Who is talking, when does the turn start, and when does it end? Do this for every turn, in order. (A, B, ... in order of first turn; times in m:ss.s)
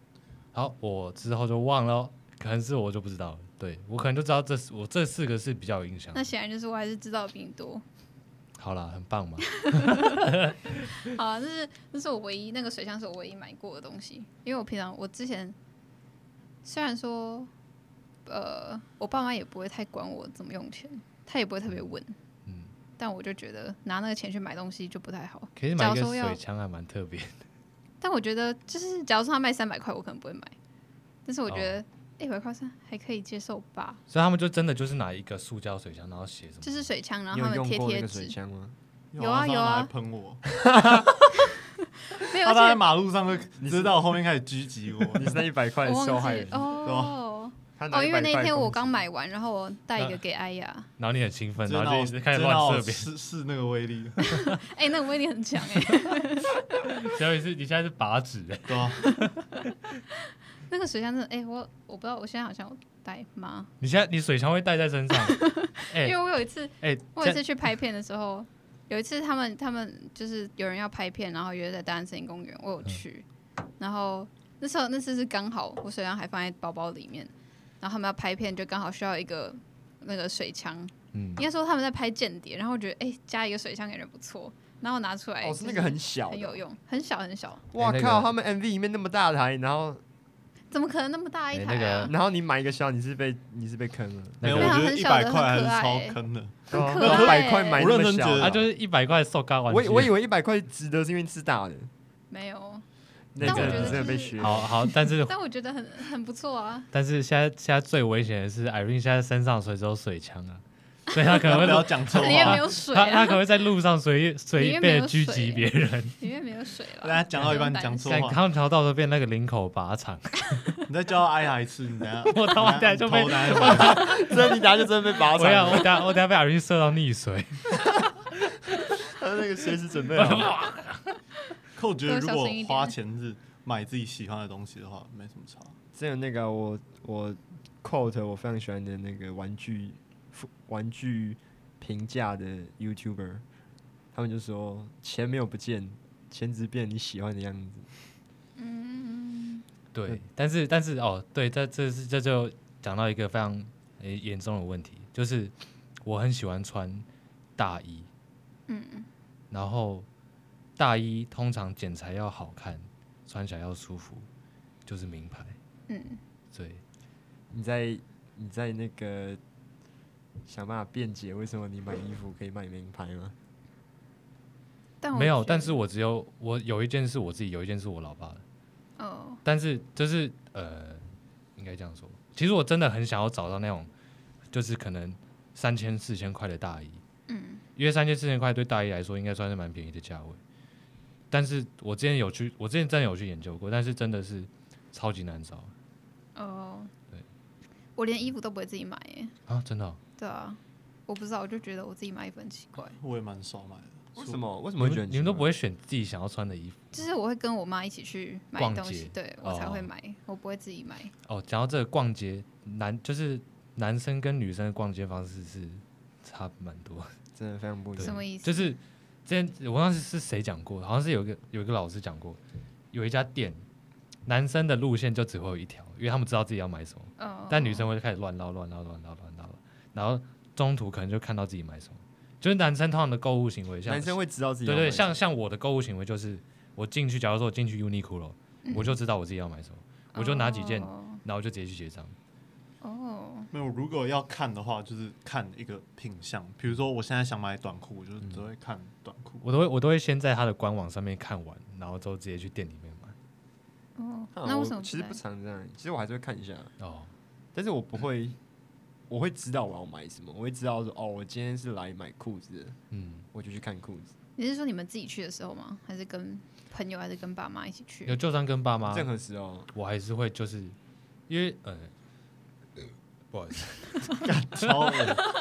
0:00.5-0:06.3 A
0:06.1-0:07.8 B
0:08.6-0:10.8 A
0:09.6-0:10.2 B
0:11.0-0:15.6 B
0:16.6-0:17.5 B
0:18.3-0:22.2 B
0:22.5-0:22.7 A
0:23.0-0:26.4 B
0:25.6-0:27.4 A
0:28.0-0:30.6 B
0:31.2-0:34.0 B
0:31.5-0:31.8 A
0:34.1-0:36.9 A
0:36.6-0:38.4 B
0:37.3-0:38.8 C
0:39.1-0:40.4 D
0:39.2-0:39.9 B
0:40.6-0:41.1 C
0:42.2-0:42.8 B
0:42.3-0:45.4 D
0:43.6-0:44.0 C
0:45.1-0:46.8 C
0:45.8-0:50.9 B
0:46.8-0:47.2 D
0:47.8-0:49.0 C
0:51.0-0:53.1 A
0:51.7-0:54.4 D
0:54.3-0:54.6 A
0:54.6-0:56.6 B
0:57.0-0:59.5 A
0:58.7-0:59.2 D
1:00.7-1:03.7 B
1:03.8-1:06.2 A
1:05.3-1:13.2 B
1:06.8-1:07.4 A
1:13.8-1:27.6 B
1:21.1-1:21.4 A
1:25.4-1:26.6 C
1:27.7-1:30.0 C
1:27.8-1:28.3 A
1:30.7-1:32.1 B
1:31.5-1:32.1 A
1:32.1-1:34.6 C
1:34.4-1:34.8 A
1:34.4-1:38.6 D
1:34.5-1:36.2 B
1:36.7-1:37.9 B
1:36.7-1:38.6 C
1:38.4-1:40.1 A
1:39.7-1:41.9 C
1:42.3-1:42.8 B
1:43.3-1:44.7 C
1:43.4-1:46.9 B
1:43.4-1:45.3 A
1:46.9-1:56.2 A
1:51.4-1:52.7 D
1:52.1-1:53.4 B
1:54.6-1:58.1 B
1:57.0-1:58.4 D
1:57.4-2:00.6 A
2:00.9-2:04.3 D
2:02.3-2:04.4 A
2:03.7-2:06.0 C
2:05.3-2:07.7 A
2:09.0-2:10.5 C
2:10.2-2:11.1 A
2:11.8-2:15.8 D
2:12.1-2:13.0 B
2:16.0-2:23.4 C
2:24.1-2:27.9 C
2:28.6-2:29.6 B
2:29.9-2:37.1 A
2:37.6-2:38.1 A
2:38.7-2:39.1 B
2:39.5-2:40.1 A
2:40.8-2:44.3 A
2:44.9-2:45.6 A
2:45.9-2:46.2 B
2:46.5-2:46.8 A
2:47.5-2:49.4 C
2:50.5-2:53.4 C
2:55.0-2:55.8 B
2:55.1-2:58.4 A
2:59.0-2:59.4 B
2:59.4-3:03.9 A
3:04.5-3:07.0 A
3:07.3-3:07.6 B
3:07.8-3:10.4 A
3:11.3-3:15.7 A
3:16.4-3:16.9 B
3:18.0-3:19.4 B
3:19.5-3:20.0 A
3:20.2-3:23.0 B
3:23.0-3:24.4 D
3:24.2-3:25.5 C
3:24.8-3:27.0 A
3:26.9-3:31.1 B
3:28.6-3:29.9 A
3:31.3-3:37.1 A
3:37.4-3:38.2 C
3:38.0-3:42.4 A
3:38.0-3:38.8 B
3:42.9-3:43.6 A
3:44.3-4:02.2 A
3:47.2-3:47.9 B
3:53.8-3:55.2 C
3:58.6-3:59.0 B
4:00.1-4:01.2 B
4:02.8-4:03.5 B
4:03.5-4:09.4 D
4:09.4-4:13.2 A
4:14.0-4:15.2 B
4:14.4-4:16.7 C
4:16.8-4:17.1 A
4:17.5-4:18.4 C
4:19.1-4:22.8 C
4:22.9-4:23.3 A
4:23.3-4:24.1 C
4:24.4-4:28.2 B
4:28.1-4:29.1 A
4:28.9-4:29.7 C
4:29.7-4:30.8 A
4:31.3-4:31.9 A
4:33.3-4:35.2 A
4:34.2-4:35.3 D